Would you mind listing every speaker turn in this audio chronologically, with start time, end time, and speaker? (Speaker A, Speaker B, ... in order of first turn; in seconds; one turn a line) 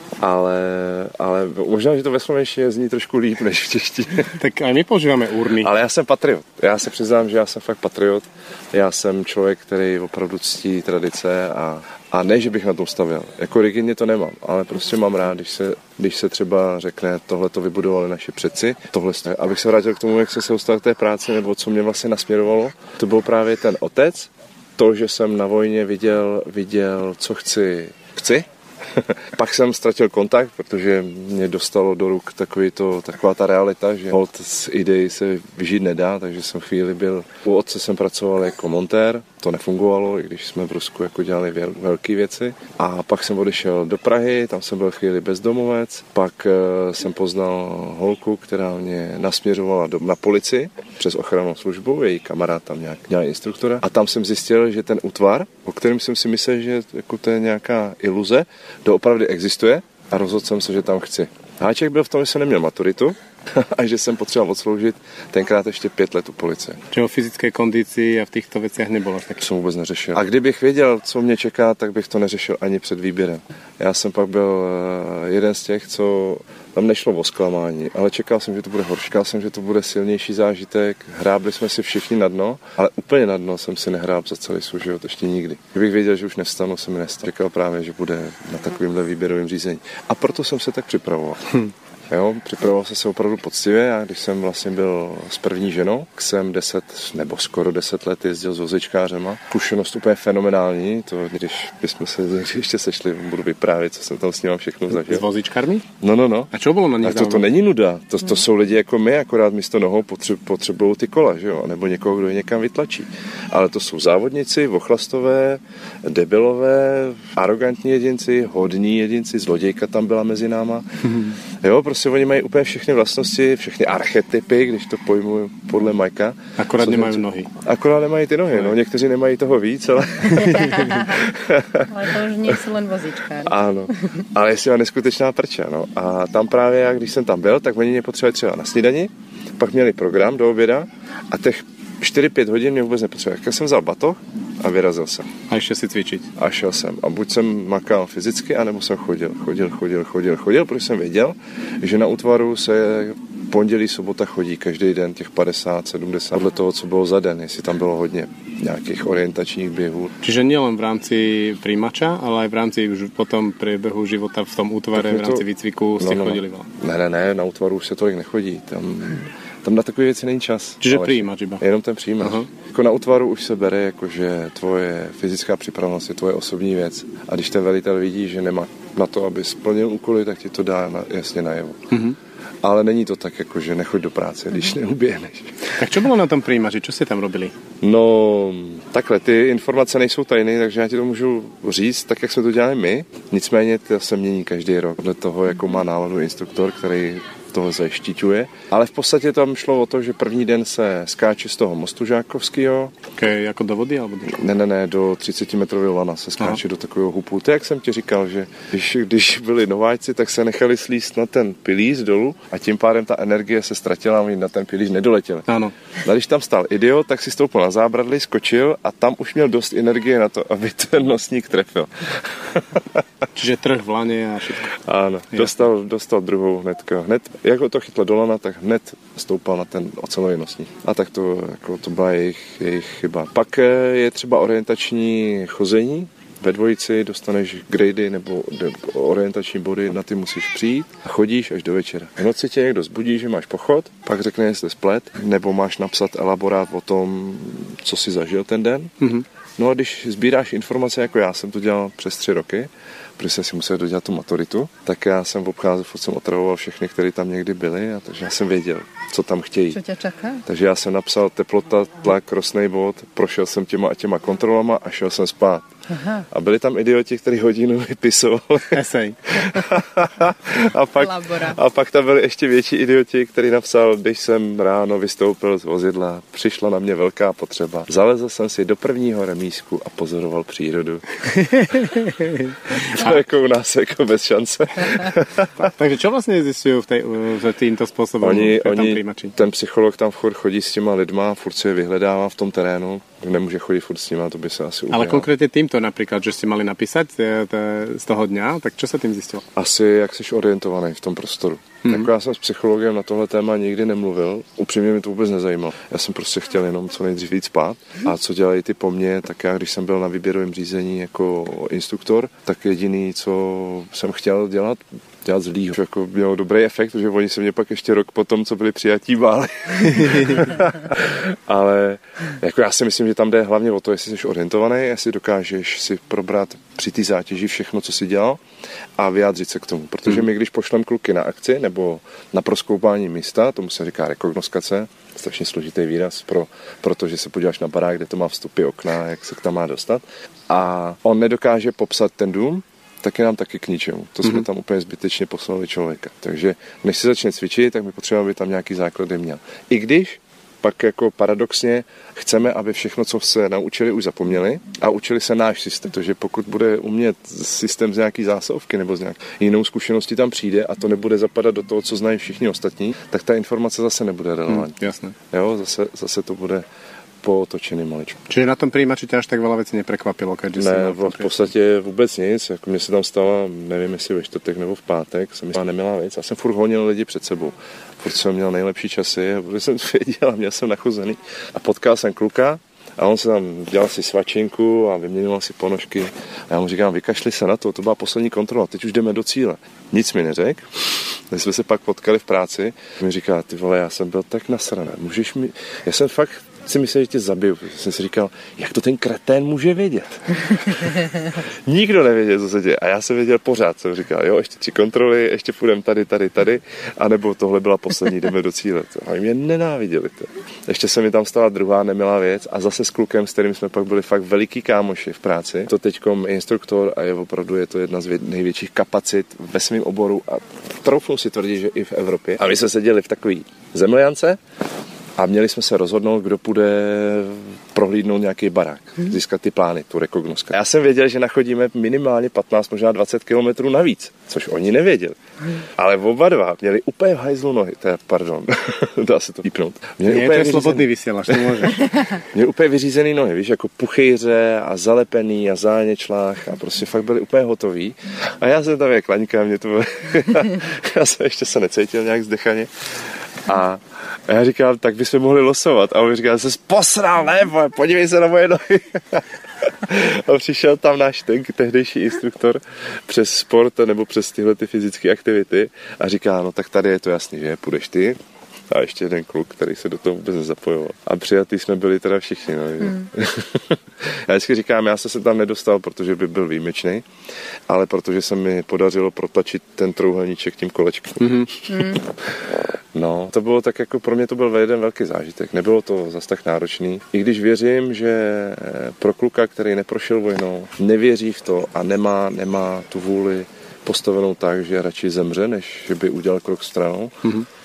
Speaker A: 0.2-4.3
Speaker B: 4.3-5.7
Speaker A: 5.5-66.8
Speaker B: 66.9-69.5
Speaker A: 69.4-105.2
Speaker B: 104.9-105.8
Speaker A: 106.0-120.9
Speaker B: 106.5-107.5
Speaker B: 121.0-121.4
Speaker A: 121.6-132.0
Speaker B: 126.6-127.5
Speaker C: 130.4-131.2
Speaker C: 131.9-134.1
Speaker A: 133.4-145.3
Speaker B: 145.5-146.3
Speaker A: 146.3-160.1
Speaker B: 160.2-166.7
Speaker A: 164.9-165.4
Speaker A: 166.0-181.9
Speaker B: 170.8-171.6
Speaker B: 172.2-172.5
Speaker B: 181.9-182.2
Speaker A: 182.6-185.7
Speaker B: 185.8-187.5
Speaker A: 187.8-202.9
Speaker B: 203.2-204.4
Speaker A: 204.3-223.0
Speaker B: 215.5-215.7
Speaker B: 223.3-224.7
Speaker A: 224.8-249.0
Speaker B: 249.0-249.2
Speaker A: 249.6-259.8
Speaker C: 259.7-260.4
Speaker A: 260.4-265.7
Speaker C: 265.9-266.2
Speaker A: 266.3-281.0
Speaker B: 268.7-269.4
Speaker C: 270.9-271.6
Speaker B: 281.4-283.1
Speaker A: 282.7-285.7
Speaker B: 285.6-289.4
Speaker A: 288.2-295.3
Speaker B: 294.9-299.4
Speaker A: 299.5-328.4
Speaker B: 301.8-302.1
Speaker A: 329.0-366.6
Speaker B: 364.5-365.1
Speaker A: 367.2-368.2
Speaker B: 368.3-371.3
Speaker A: 370.6-424.4
Speaker A: 425.2-452.7
Speaker B: 440.0-441.9
Speaker A: 453.4-468.2
Speaker A: 468.7-477.0
Speaker C: 472.8-473.1
Speaker A: 477.7-482.4
Speaker B: 481.2-481.5
Speaker C: 481.7-482.0
Speaker A: 482.9-497.2